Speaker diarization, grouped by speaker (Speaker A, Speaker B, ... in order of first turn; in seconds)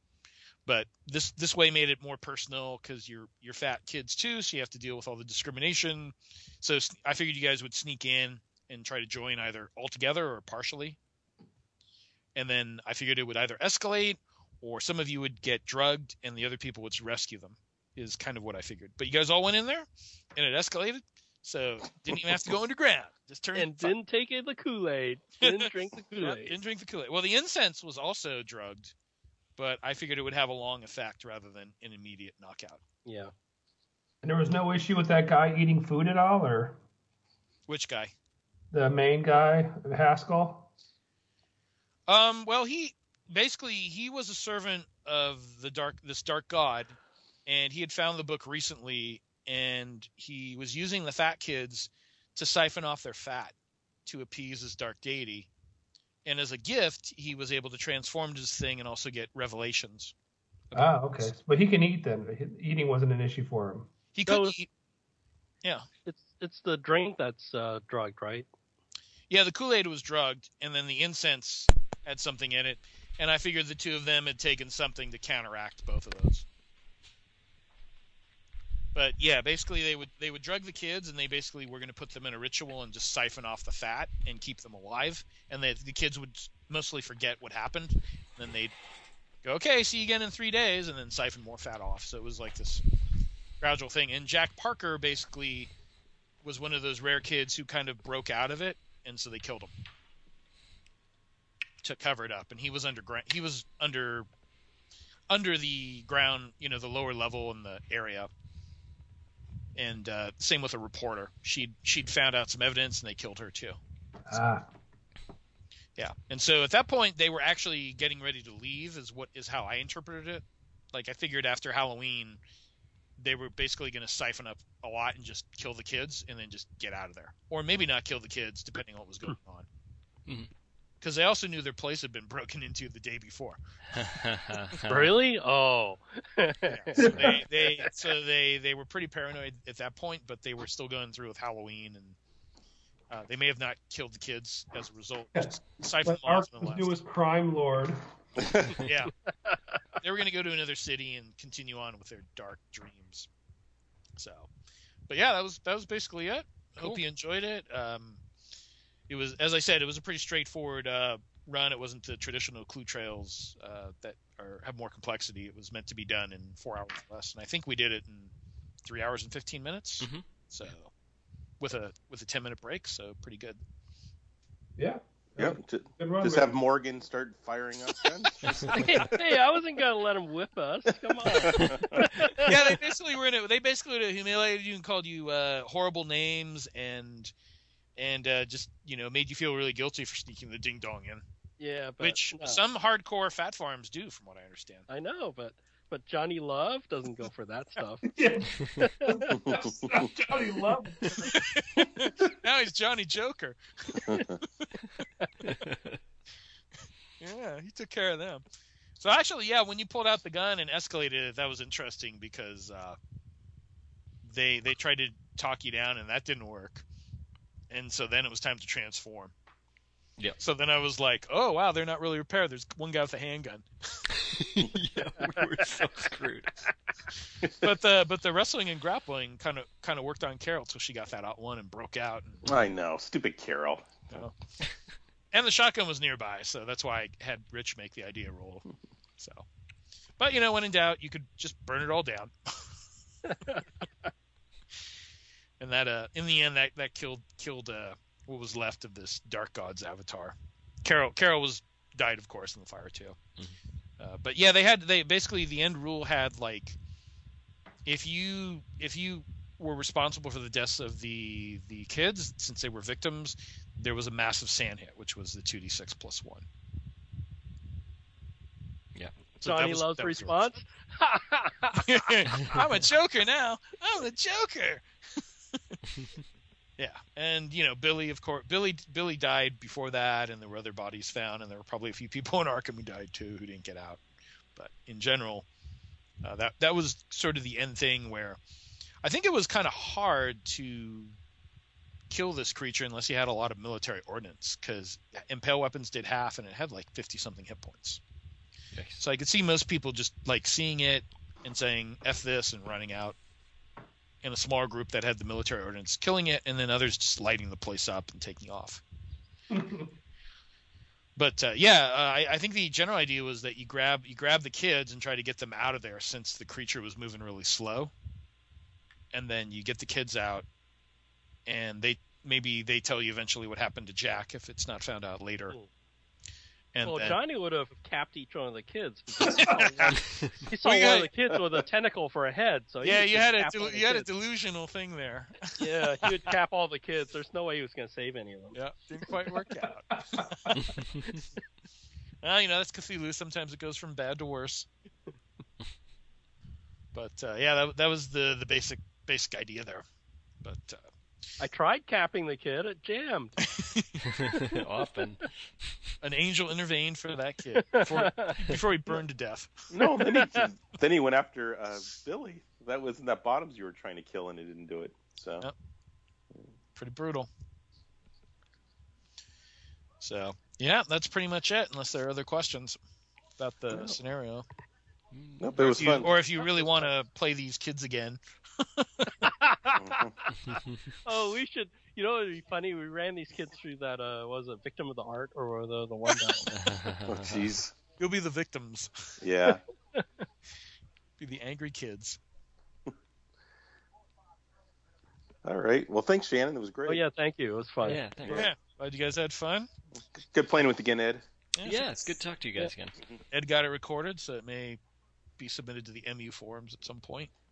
Speaker A: 0.7-11.0, 12.3-23.9, 25.4-28.9, 29.6-32.8, 37.7-38.1, 42.1-53.5, 54.1-55.5, 56.2-60.1, 60.7-61.3, 64.1-64.7, 69.3-76.5, 79.0-88.8, 89.4-92.8, 93.6-95.7, 96.4-99.7, 101.8-104.3, 105.3-108.3, 109.8-113.8, 116.0-122.4, 123.2-129.7, 131.0-133.6, 136.7-142.2, 143.1-146.9, 148.8-149.1, 150.0-153.3, 154.2-154.5, 155.1-158.2, 159.1-168.3, 168.8-170.9, 171.6-173.6, 182.4-187.3, 188.0-191.2, 192.0-194.9, 201.2-204.7, 207.2-208.4, 209.0-213.0, 214.2-216.8, 217.7-219.3, 220.4-224.1, 227.6-232.5, 235.3-238.7, 239.2-239.5, 240.2-242.6, 245.6-253.2, 254.0-256.8, 257.9-266.5, 269.4-270.4, 271.8-274.9, 276.8-284.0, 284.6-285.5, 286.2-288.4, 289.0-291.1, 292.1-298.0, 299.0-303.2, 304.2-308.8, 311.2-317.9, 319.1-320.5, 321.5-325.6, 326.7-327.2, 329.2-331.1, 332.8-336.3, 338.5-340.6, 342.2-344.7, 346.9-349.8, 350.4-350.9, 353.4-354.0, 356.0-359.6, 366.8-367.3, 370.0-372.8, 373.4-374.5, 375.6-379.1, 388.0-389.2, 391.2-392.2, 398.3-399.7, 401.6-401.9, 403.3-404.8, 405.4-407.3
Speaker B: 23.6-26.6, 33.0-33.3, 64.3-64.5, 66.0-68.5, 134.9-137.9, 178.7-182.7, 191.6-192.6, 194.9-198.1, 198.7-199.4, 243.3-243.6, 269.4-272.0, 326.8-334.1, 335.6-338.6, 351.4-353.4, 354.3-354.6, 357.6-358.4, 359.7-360.5, 379.2-380.3, 381.1-386.5, 390.0-390.2, 396.9-398.0
Speaker C: 34.2-36.8, 38.7-40.7, 60.7-63.9, 114.3-114.7, 137.0-137.4, 146.0-148.0, 174.8-176.6, 198.1-201.4, 309.5-309.9, 339.9-340.7
Speaker D: 133.9-135.1, 178.5-178.8, 205.4-206.0, 224.1-226.7, 298.7-299.0, 330.0-330.4, 340.5-341.1, 354.1-355.7, 375.1-375.5, 380.5-380.8, 386.5-387.4, 397.8-398.5, 401.6-403.0
Speaker E: 148.4-148.8, 175.4-179.4, 181.1-182.1, 199.3-200.1, 204.1-204.4, 232.4-233.9, 359.7-365.5, 375.4-376.2, 379.8-380.1, 387.1-387.7, 389.2-389.6, 395.4-397.0, 400.1-401.2